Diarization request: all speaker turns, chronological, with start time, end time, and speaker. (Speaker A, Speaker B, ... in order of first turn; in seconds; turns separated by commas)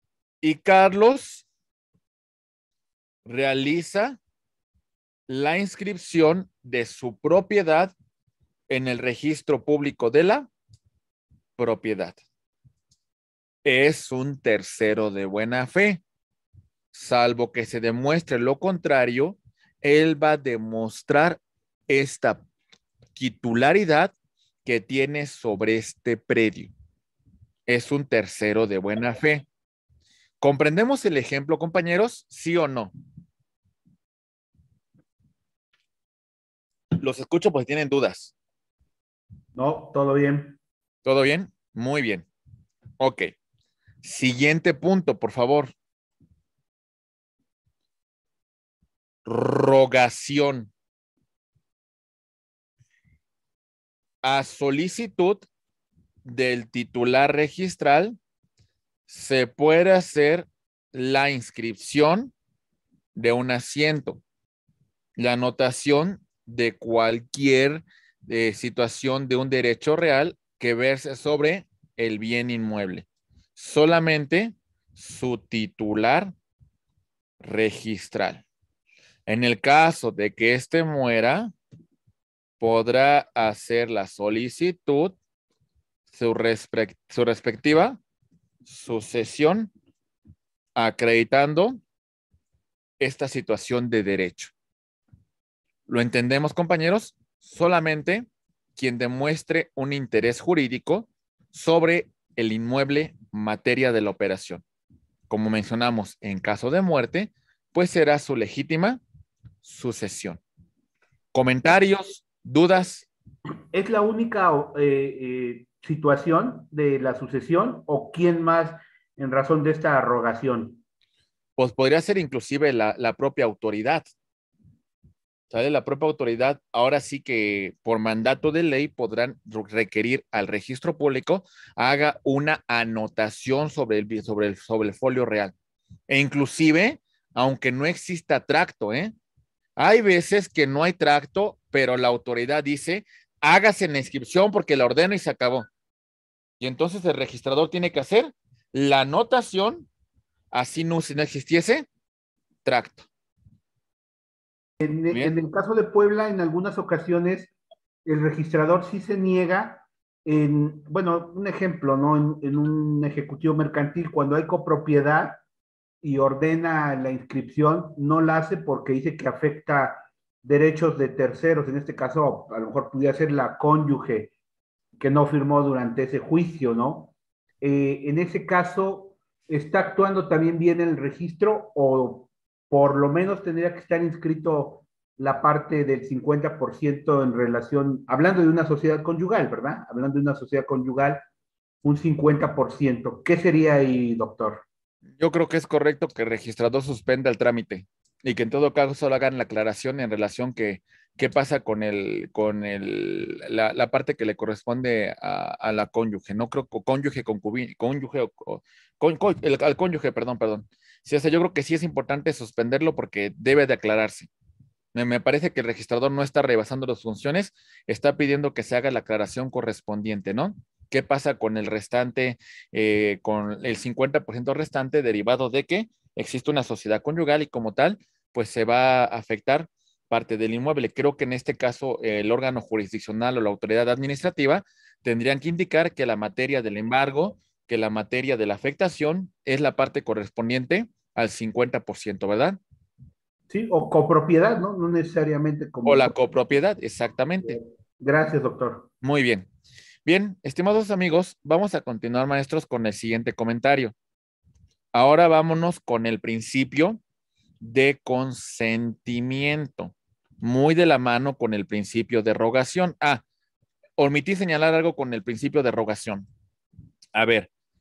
Speaker A: 0.4-1.5, Speaker A: 3.3-4.2, Speaker A: 5.3-7.9, Speaker A: 8.7-10.5, Speaker A: 11.6-12.2, Speaker A: 13.7-16.0, Speaker A: 16.9-22.4, Speaker A: 23.2-24.1, Speaker A: 24.6-26.7, Speaker A: 27.7-29.5, Speaker A: 30.4-32.9, Speaker A: 37.0-38.3, Speaker B: 39.5-40.6, Speaker A: 41.0-42.3, Speaker A: 43.0-43.3, Speaker A: 44.0-45.7, Speaker A: 49.2-50.7, Speaker A: 54.2-55.5, Speaker A: 56.2-58.2, Speaker A: 59.1-62.3, Speaker A: 63.1-64.2, Speaker A: 65.2-76.3, Speaker A: 77.4-78.4, Speaker A: 79.3-81.5, Speaker A: 82.6-85.2, Speaker A: 86.1-88.0, Speaker A: 88.7-89.7, Speaker A: 90.8-91.8, Speaker A: 93.0-94.5, Speaker A: 95.9-104.6, Speaker A: 105.3-109.0, Speaker A: 109.6-110.4, Speaker A: 111.3-113.1, Speaker B: 113.7-120.8, Speaker A: 121.6-124.1, Speaker A: 125.5-135.5, Speaker A: 136.1-139.1, Speaker A: 139.8-145.7, Speaker A: 146.6-149.9, Speaker A: 150.5-151.9, Speaker A: 152.7-153.1, Speaker B: 154.8-157.5, Speaker A: 155.1-155.4, Speaker B: 158.1-165.4, Speaker B: 166.0-174.3, Speaker B: 175.0-191.2, Speaker B: 191.8-194.6, Speaker A: 195.2-214.3, Speaker A: 214.9-242.6, Speaker B: 243.5-246.1, Speaker A: 245.9-247.6, Speaker B: 247.5-248.9, Speaker A: 249.0-249.5, Speaker A: 250.1-253.9, Speaker A: 254.9-257.0, Speaker A: 257.6-263.2, Speaker A: 264.0-266.3, Speaker A: 267.1-267.5